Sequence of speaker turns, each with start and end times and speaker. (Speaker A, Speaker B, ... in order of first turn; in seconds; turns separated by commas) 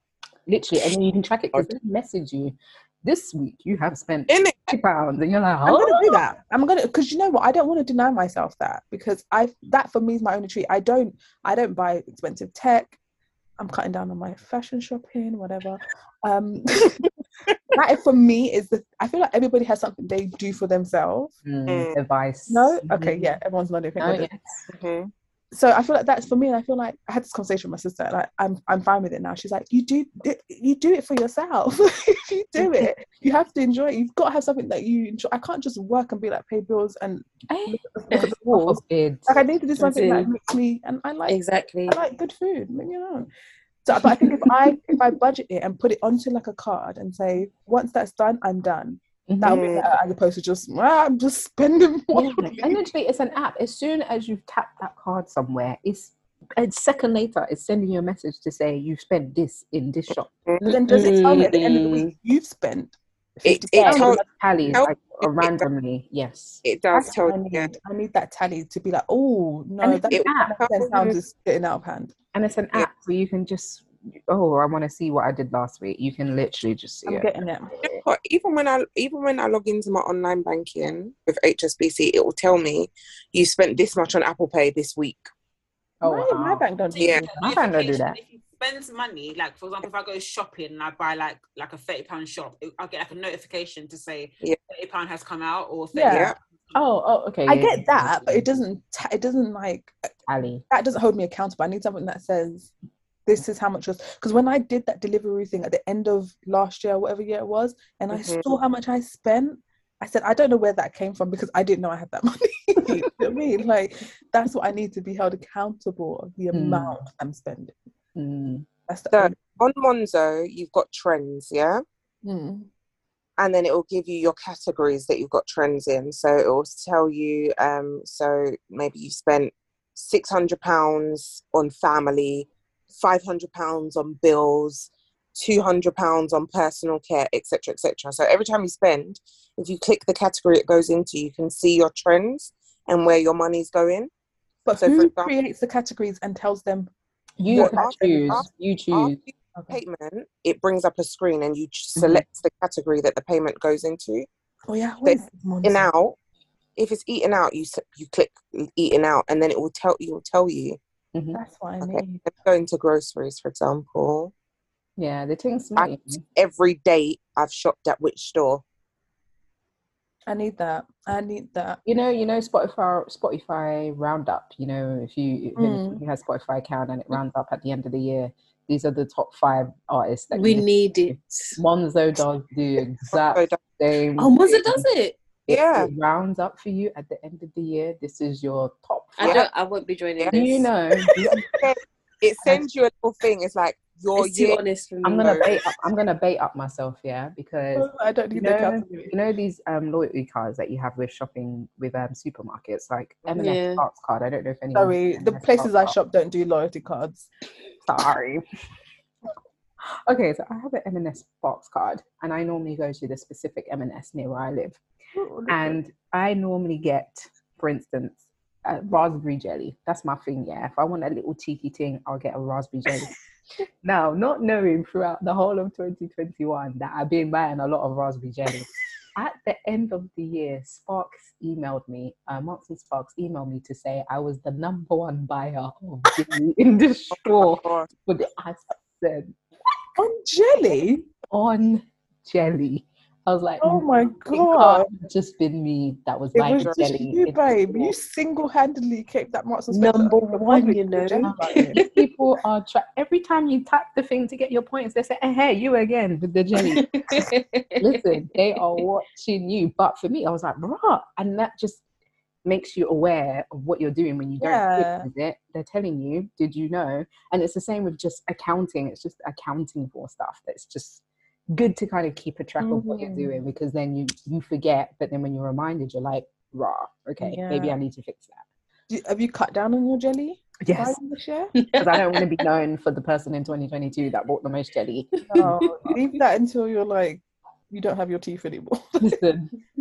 Speaker A: 0.5-5.9, Speaker B: 4.3-4.8, Speaker C: 5.7-12.9, Speaker C: 13.6-17.1, Speaker C: 17.7-21.3, Speaker A: 21.4-23.4, Speaker B: 21.7-21.9, Speaker C: 22.5-24.3, Speaker A: 24.0-24.7, Speaker B: 24.7-25.1, Speaker C: 25.5-43.3, Speaker A: 37.5-39.4, Speaker D: 39.8-40.3, Speaker D: 41.3-42.0, Speaker C: 43.8-52.8, Speaker A: 49.3-49.6, Speaker B: 49.5-49.9, Speaker A: 52.1-60.3, Speaker D: 60.6-62.1, Speaker C: 60.6-64.2, Speaker B: 63.4-65.7, Speaker A: 63.8-66.6, Speaker B: 66.6-67.7, Speaker C: 66.9-72.1, Speaker A: 69.8-71.0, Speaker B: 70.1-71.2, Speaker A: 72.3-78.0, Speaker C: 77.0-77.8, Speaker B: 78.0-85.3, Speaker A: 86.0-86.7, Speaker C: 86.0-87.3, Speaker E: 86.9-96.8, Speaker B: 87.0-87.2, Speaker A: 87.3-88.2, Speaker C: 95.9-96.3, Speaker B: 96.1-96.3, Speaker A: 96.7-98.4, Speaker C: 97.5-99.9, Speaker A: 100.3-100.6, Speaker C: 100.7-102.7, Speaker C: 103.2-117.7, Speaker B: 108.1-108.5, Speaker A: 116.5-117.0, Speaker A: 118.2-118.7, Speaker C: 118.9-119.4, Speaker B: 119.1-121.8, Speaker C: 122.2-122.7, Speaker B: 123.4-144.1, Speaker C: 144.7-146.9, Speaker B: 144.8-145.3, Speaker A: 147.4-149.2, Speaker C: 147.5-148.4, Speaker B: 147.5-154.3, Speaker A: 151.9-152.2, Speaker C: 154.7-155.9, Speaker B: 155.0-156.2, Speaker B: 156.8-160.8, Speaker A: 161.1-161.4, Speaker C: 161.3-162.2, Speaker B: 161.8-164.3, Speaker A: 165.0-166.2, Speaker B: 165.8-168.6, Speaker C: 170.3-171.8, Speaker A: 171.8-184.9, Speaker C: 175.6-176.0, Speaker D: 180.3-181.6, Speaker B: 183.1-183.6, Speaker D: 184.2-185.2, Speaker A: 185.5-189.5, Speaker B: 185.5-185.9, Speaker D: 189.2-190.7, Speaker B: 189.2-189.5, Speaker A: 190.3-191.1, Speaker B: 191.2-194.6, Speaker D: 194.2-195.5, Speaker A: 195.0-205.9, Speaker B: 195.2-195.5, Speaker C: 197.7-199.1, Speaker D: 203.3-203.8, Speaker C: 204.7-207.3, Speaker A: 207.8-208.4, Speaker A: 209.8-214.8, Speaker C: 215.1-215.8, Speaker A: 215.5-223.2, Speaker A: 223.8-239.4, Speaker B: 237.1-237.9, Speaker C: 240.0-241.1, Speaker A: 241.3-247.9, Speaker C: 243.6-244.9, Speaker C: 246.3-251.8, Speaker B: 246.6-246.8, Speaker D: 249.7-252.1, Speaker A: 251.2-257.2, Speaker D: 256.6-257.9, Speaker A: 257.8-261.8, Speaker A: 262.4-278.4, Speaker C: 264.4-265.1, Speaker C: 272.6-273.4, Speaker C: 277.2-277.8, Speaker C: 278.9-281.5, Speaker A: 280.6-281.0, Speaker D: 281.6-282.4, Speaker A: 281.7-285.6, Speaker C: 285.3-289.2, Speaker D: 285.4-285.8, Speaker A: 289.0-289.5